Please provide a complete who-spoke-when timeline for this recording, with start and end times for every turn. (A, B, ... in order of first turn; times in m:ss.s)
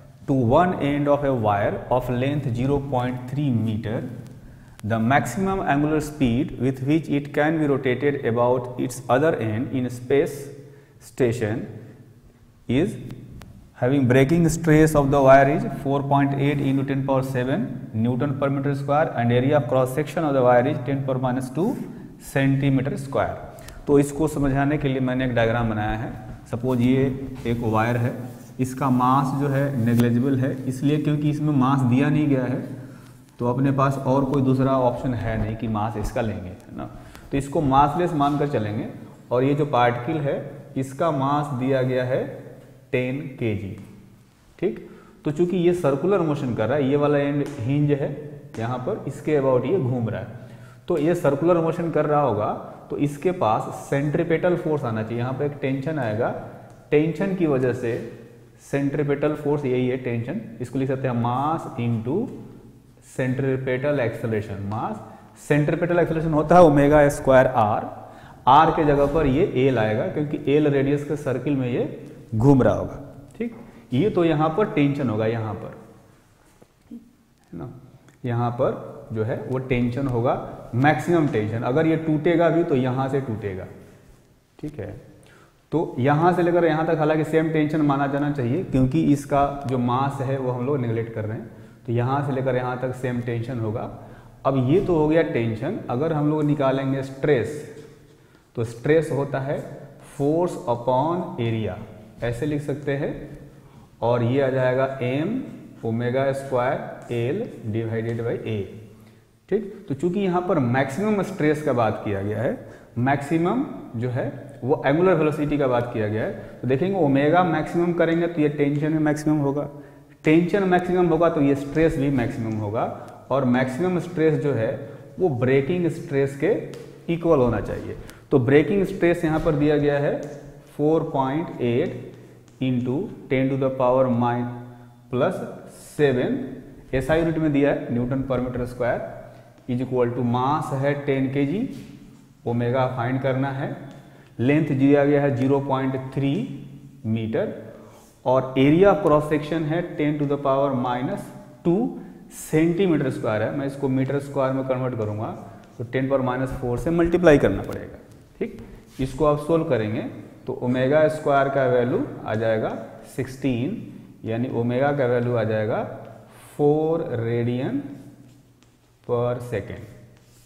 0:00.2-0:04.1 A
0:04.8-0:11.7 A
0:12.7-0:13.0 A
0:13.8-0:32.7 A
0:33.4-0:42.4 A
0:42.9-0:43.8 A
0:44.6-0:50.3 A
0:50.9-0:56.4 A
0:56.9-1:02.3 A
1:03.0-1:07.9 A
1:08.5-1:15.8 A
1:17.5-1:23.7 A
1:24.6-1:25.0 A
1:25.7-1:37.8 A
1:38.5-1:43.2 A
1:44.0-1:48.8 A
1:49.5-1:59.7 A
2:00.2-2:12.1 A
2:12.6-2:19.1 A
2:19.7-2:21.8 A
2:22.4-2:23.8 A
2:24.4-2:27.6 A
2:28.2-2:47.9 A
2:49.0-2:49.9 A